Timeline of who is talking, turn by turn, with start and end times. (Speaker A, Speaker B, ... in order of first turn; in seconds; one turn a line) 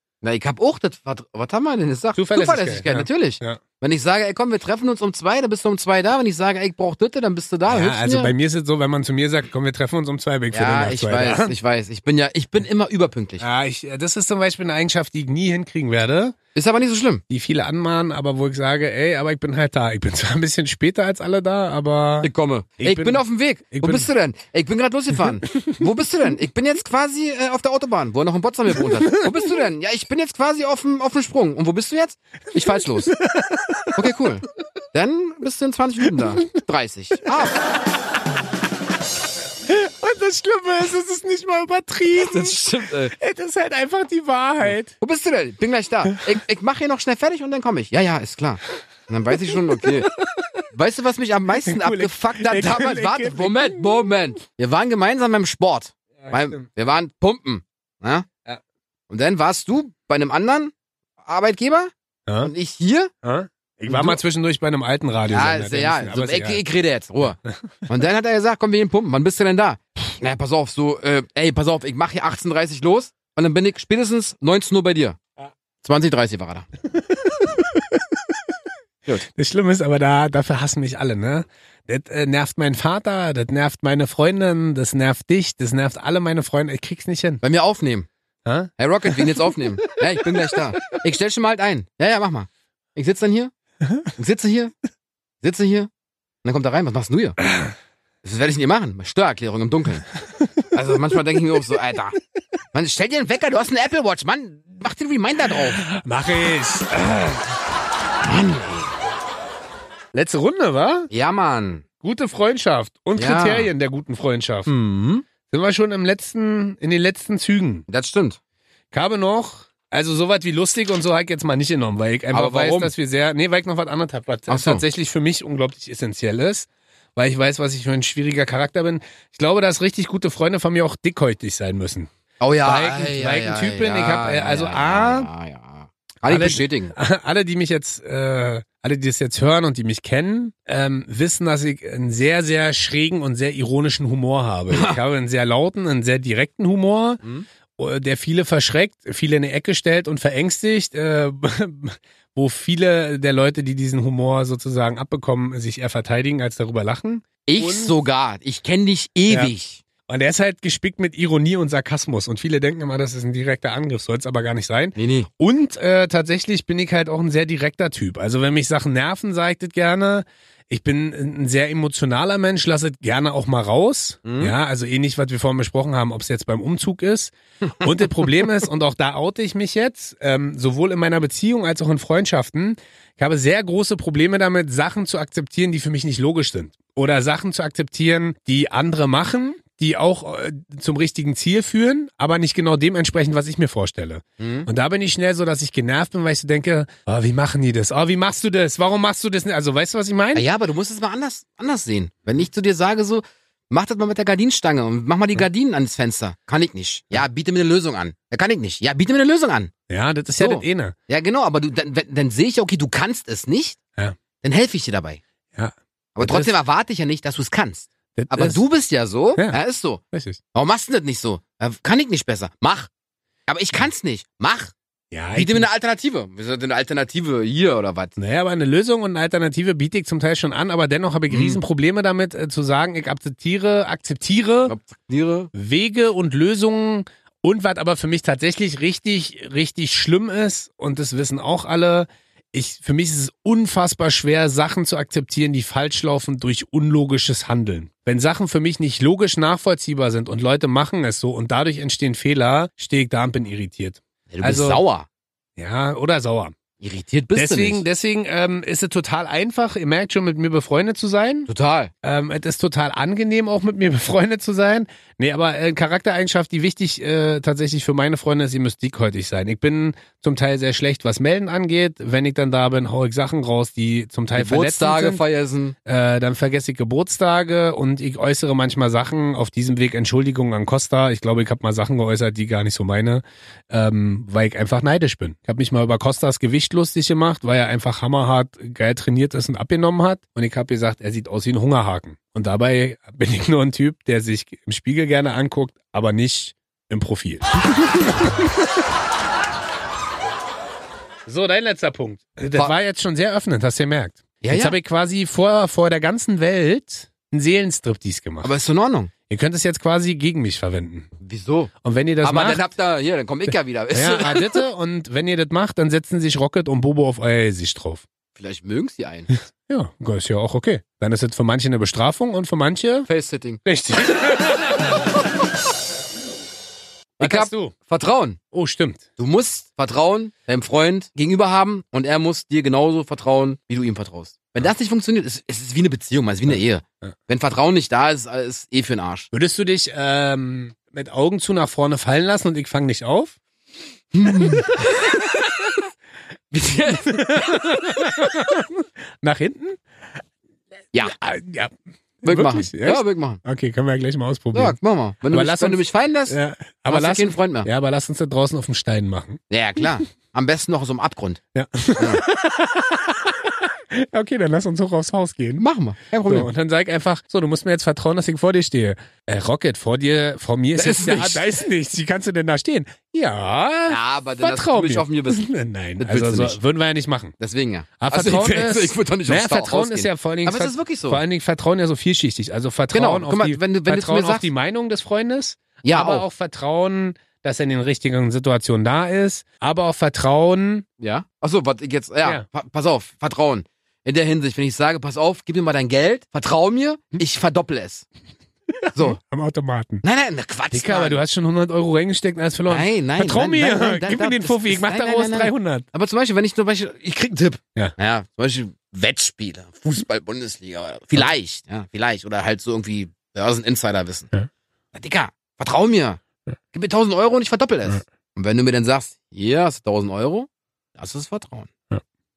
Speaker A: 0.2-8.3
Speaker B: 2.1-3.6
Speaker B: 7.7-11.5
Speaker A: 10.5-13.4
Speaker B: 13.4-16.4
Speaker A: 16.5-17.2
Speaker B: 17.3-24.1
Speaker A: 22.2-33.2
Speaker B: 25.5-25.8
Speaker B: 33.1-33.9
Speaker A: 33.9-37.6
Speaker B: 39.6-42.6
Speaker A: 42.1-43.1
Speaker B: 43.1-44.9
Speaker A: 45.0-50.1
Speaker A: 50.7-58.3
Speaker B: 51.6-54.1
Speaker B: 56.2-56.6
Speaker A: 59.1-63.1
Speaker B: 62.3-62.5
Speaker B: 63.2-66.6
Speaker A: 63.9-64.2
Speaker A: 65.3-75.2
Speaker A: 75.8-76.7
Speaker B: 76.9-78.0
Speaker B: 79.2-87.4
Speaker A: 87.4-88.1
Speaker B: 88.4-90.0
Speaker A: 88.8-93.5
Speaker A: 94.2-94.7
Speaker A: 95.4-95.9
Speaker A: 96.4-97.4
Speaker B: 97.5-97.7
Speaker A: 98.2-100.0
Speaker A: 100.7-102.2
Speaker A: 102.7-105.8
Speaker B: 105.6-107.5
Speaker A: 108.2-108.9
Speaker B: 110.1-111.1
Speaker A: 111.1-111.8
Speaker B: 112.0-114.7
Speaker A: 113.2-113.7
Speaker A: 114.7-115.2
Speaker B: 115.5-117.8
Speaker A: 117.9-118.4
Speaker B: 118.9-132.1
Speaker A: 122.3-122.9
Speaker A: 124.5-124.8
Speaker A: 132.4-136.9
Speaker B: 132.6-135.3
Speaker B: 136.2-147.2
Speaker A: 144.7-144.9
Speaker B: 147.8-158.0
Speaker A: 157.4-159.8
Speaker B: 160.1-200.4
Speaker A: 164.9-165.3
Speaker A: 174.2-174.5
Speaker A: 194.4-194.7
Speaker A: 200.3-209.7
Speaker B: 209.9-210.9
Speaker A: 210.4-213.8
Speaker A: 214.4-215.2
Speaker B: 215.6-216.6
Speaker A: 216.2-220.0
Speaker B: 218.1-218.6
Speaker B: 219.3-219.6
Speaker B: 220.1-220.4
Speaker A: 220.5-222.9
Speaker A: 223.5-224.7
Speaker B: 225.1-225.7
Speaker A: 225.3-228.1
Speaker B: 228.2-234.7
Speaker A: 231.3-231.6
Speaker A: 234.7-235.5
Speaker B: 235.5-254.8
Speaker A: 254.3-255.1
Speaker B: 255.6-256.6
Speaker A: 256.8-257.8
Speaker B: 257.3-261.5
Speaker A: 261.5-261.9
Speaker B: 262.0-275.2
Speaker A: 274.3-275.7
Speaker B: 275.9-298.7
Speaker B: 301.2-308.5
Speaker A: 304.4-304.8
Speaker A: 308.4-309.1
Speaker B: 309.3-311.1
Speaker A: 311.2-311.7
Speaker B: 311.8-312.6
Speaker A: 312.2-314.6
Speaker B: 313.5-318.0
Speaker A: 318.4-319.3
Speaker B: 319.7-323.1
Speaker A: 323.1-323.6
Speaker B: 323.6-325.1
Speaker A: 327.2-328.4
Speaker B: 327.2-327.7
Speaker B: 328.5-329.0
Speaker A: 329.2-339.3
Speaker B: 339.3-343.4
Speaker A: 344.1-345.8
Speaker B: 344.3-344.6
Speaker A: 346.5-348.1
Speaker B: 347.0-350.2
Speaker B: 351.0-354.8
Speaker A: 352.2-353.4
Speaker A: 354.5-356.4
Speaker B: 355.3-359.9
Speaker A: 356.9-357.7
Speaker A: 359.5-361.4
Speaker B: 361.5-365.6
Speaker A: 365.6-366.5
Speaker B: 366.2-377.3
Speaker A: 370.8-371.4
Speaker A: 373.9-375.5
Speaker A: 376.0-376.6
Speaker A: 377.4-381.2
Speaker B: 378.0-390.8
Speaker A: 382.9-384.5
Speaker A: 385.8-386.2
Speaker A: 391.0-398.0
Speaker B: 398.7-400.0
Speaker A: 400.0-401.2
Speaker B: 400.7-405.8
Speaker A: 402.7-414.3
Speaker A: 414.9-416.2
Speaker A: 416.7-421.7